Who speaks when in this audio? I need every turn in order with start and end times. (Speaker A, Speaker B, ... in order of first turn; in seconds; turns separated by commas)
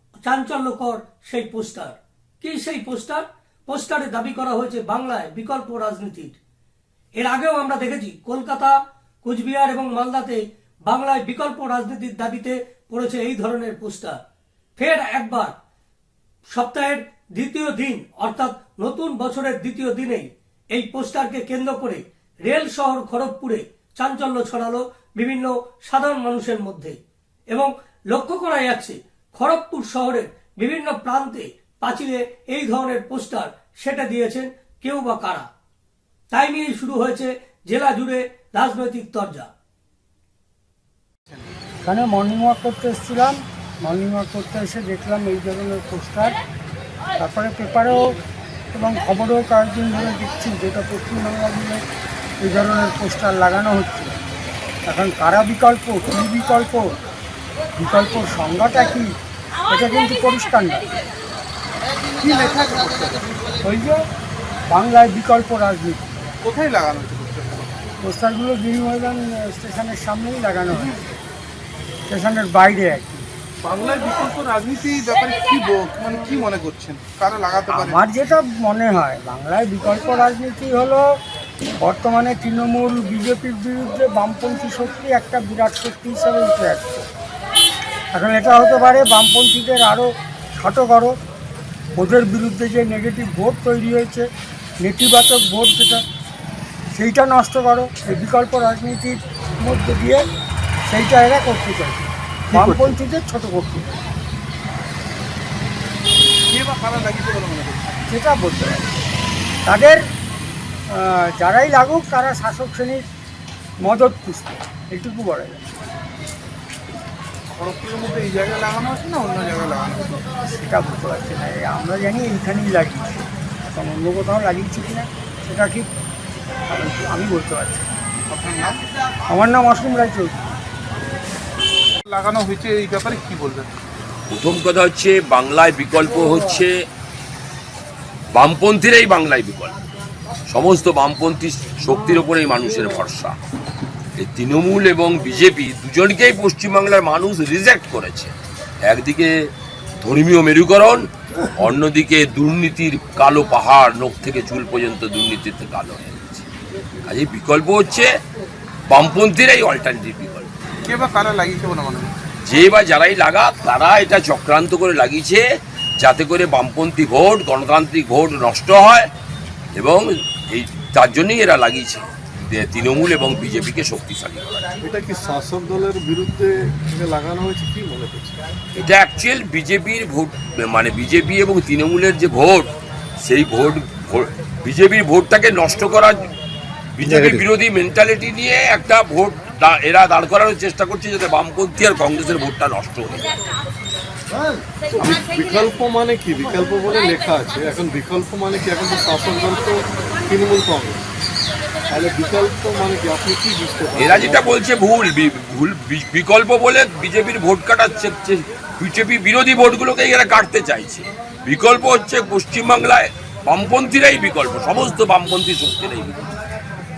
Speaker A: 0.2-6.4, Speaker A: 7.2-14.2, Speaker A: 14.8-15.5, Speaker A: 16.5-27.0, Speaker A: 27.5-35.5, Speaker A: 36.3-39.5, Speaker B: 41.9-46.4, Speaker B: 47.2-48.0, Speaker B: 48.7-51.8, Speaker B: 52.4-54.1, Speaker B: 54.9-56.9, Speaker B: 57.8-59.1, Speaker B: 59.7-60.9, Speaker C: 62.2-63.4, Speaker B: 63.6-64.0, Speaker B: 64.7-66.2, Speaker C: 66.4-67.8, Speaker B: 68.0-71.0, Speaker B: 72.1-73.3, Speaker C: 73.6-78.0, Speaker B: 77.7-81.0, Speaker B: 81.8-87.1, Speaker B: 88.1-91.1, Speaker B: 92.0-94.2, Speaker B: 94.8-96.0, Speaker B: 97.0-100.2, Speaker B: 100.9-103.9, Speaker C: 106.5-108.0, Speaker B: 108.1-108.9, Speaker B: 109.7-110.0, Speaker B: 111.0-113.0, Speaker B: 113.8-115.7, Speaker C: 117.5-120.3, Speaker B: 120.5-123.2, Speaker B: 123.7-125.9, Speaker B: 126.7-127.8, Speaker C: 128.3-128.8, Speaker B: 129.3-130.5, Speaker C: 132.1-133.7, Speaker D: 134.3-136.7, Speaker D: 138.3-139.8, Speaker D: 140.5-143.3, Speaker D: 144.2-148.3, Speaker D: 148.8-149.3, Speaker D: 150.0-151.0, Speaker D: 151.6-156.5, Speaker D: 157.1-158.1, Speaker D: 158.9-160.5, Speaker C: 160.8-162.1, Speaker D: 162.5-165.4, Speaker D: 166.0-169.1, Speaker D: 169.7-174.5, Speaker E: 174.8-178.4, Speaker D: 178.8-182.7, Speaker D: 183.2-186.3, Speaker D: 187.0-193.3, Speaker E: 194.9-201.1, Speaker E: 201.9-204.5, Speaker D: 203.9-216.3